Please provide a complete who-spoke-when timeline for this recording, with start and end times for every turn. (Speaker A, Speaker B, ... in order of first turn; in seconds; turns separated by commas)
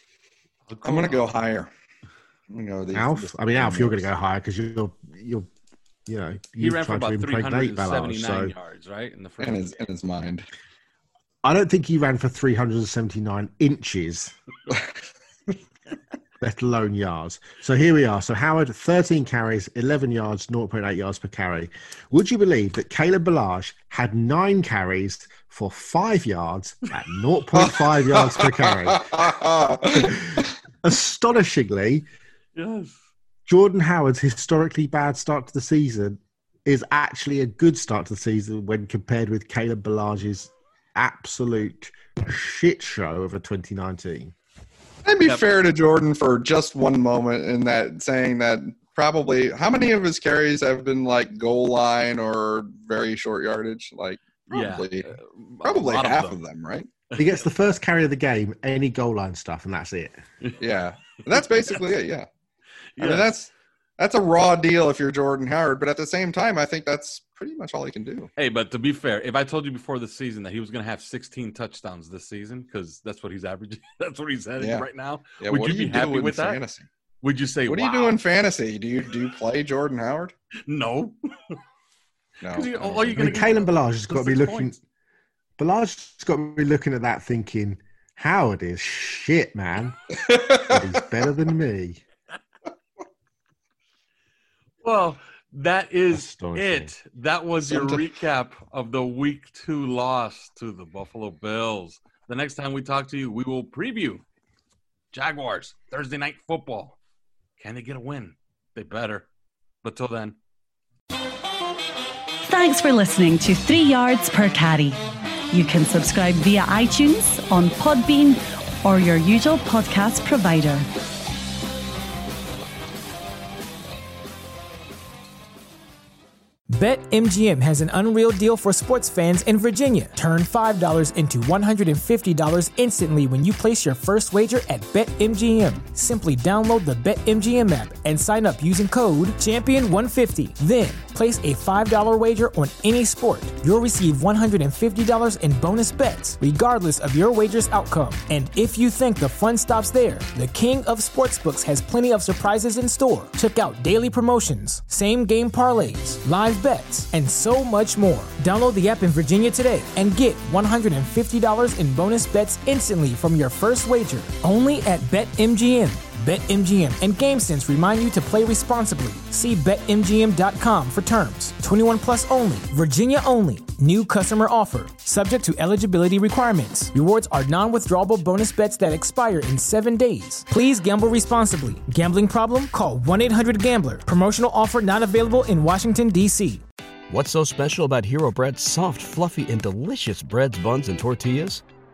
Speaker A: 0.7-1.3, Speaker B: 0.8-1.7, Speaker B: 2.5-4.1, Speaker C: 2.9-5.5, Speaker C: 6.1-8.6, Speaker A: 6.6-9.8, Speaker B: 9.4-10.5, Speaker C: 11.4-14.3, Speaker C: 16.4-29.1, Speaker B: 27.6-30.5, Speaker C: 29.9-32.1, Speaker A: 32.6-33.0, Speaker C: 33.5-44.3, Speaker B: 45.0-56.9, Speaker A: 54.5-56.4, Speaker C: 57.2-60.2, Speaker B: 60.6-62.3, Speaker A: 61.3-61.8, Speaker A: 63.0-63.3, Speaker B: 63.0-68.3, Speaker A: 68.4-76.6, Speaker B: 74.6-74.9, Speaker B: 75.4-76.9, Speaker A: 77.2-78.2, Speaker B: 77.7-80.3, Speaker A: 80.7-81.6, Speaker B: 82.4-83.3, Speaker A: 82.5-84.8, Speaker C: 83.2-84.8, Speaker C: 85.6-92.0, Speaker B: 90.1-90.8, Speaker A: 94.8-104.2, Speaker C: 96.1-96.9, Speaker A: 105.1-107.0, Speaker A: 107.6-109.3, Speaker A: 109.8-110.4, Speaker D: 112.5-115.0, Speaker D: 115.5-120.9, Speaker E: 126.7-186.6, Speaker F: 187.1-191.6